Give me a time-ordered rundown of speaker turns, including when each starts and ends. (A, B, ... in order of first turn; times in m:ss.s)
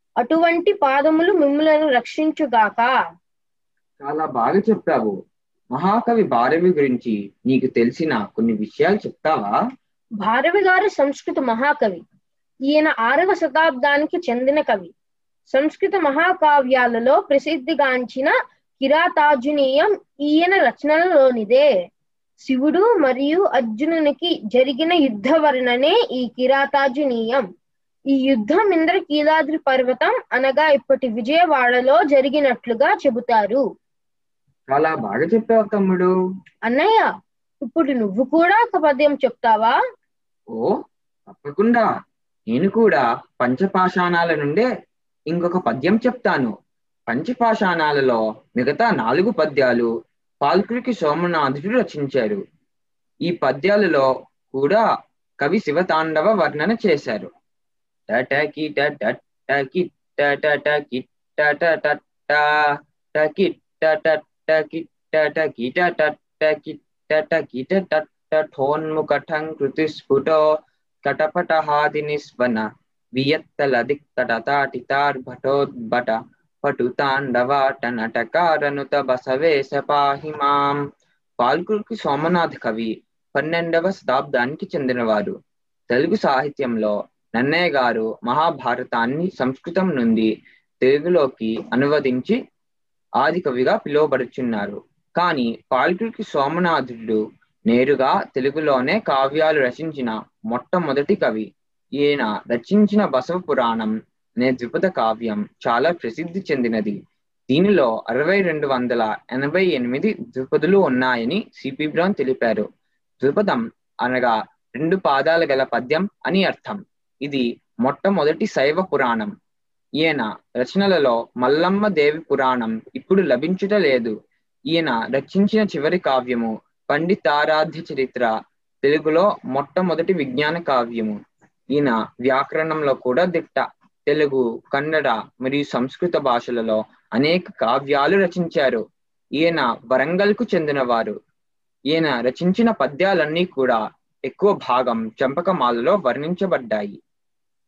0:00.2-0:03.0 A
0:04.0-0:05.2 B
0:05.7-0:09.6 B
0:10.2-0:12.0 A
0:12.7-0:14.9 A
0:15.5-0:21.7 A
0:22.4-0:27.4 A
0:28.2-0:33.6 A
0:34.7-0:36.1 B
0:36.7-0:37.0 A
0:37.7-0:39.7 A
0:41.3-0:41.9 B
0:42.5-0:44.6 B
0:45.3-0:46.5 B
0:47.1-0:49.9 B
0:50.4-0:52.4 B
0:53.3-0:54.8 B
0:55.4-0:57.3 B
0:58.1-1:02.5 B
1:03.1-1:10.4 B
1:11.0-1:20.8 B
1:21.4-1:25.3 B
1:25.9-1:30.3 B
1:30.8-1:32.4 B
1:33.2-1:41.5 B
1:42.0-1:47.0 B
1:47.5-1:52.6 B
1:53.2-1:59.3 B
2:00.0-2:04.1 B
2:04.7-2:08.3 B
2:08.8-2:11.2 B
2:11.7-2:18.8 B
2:19.4-2:21.2 B
2:21.9-2:27.0 B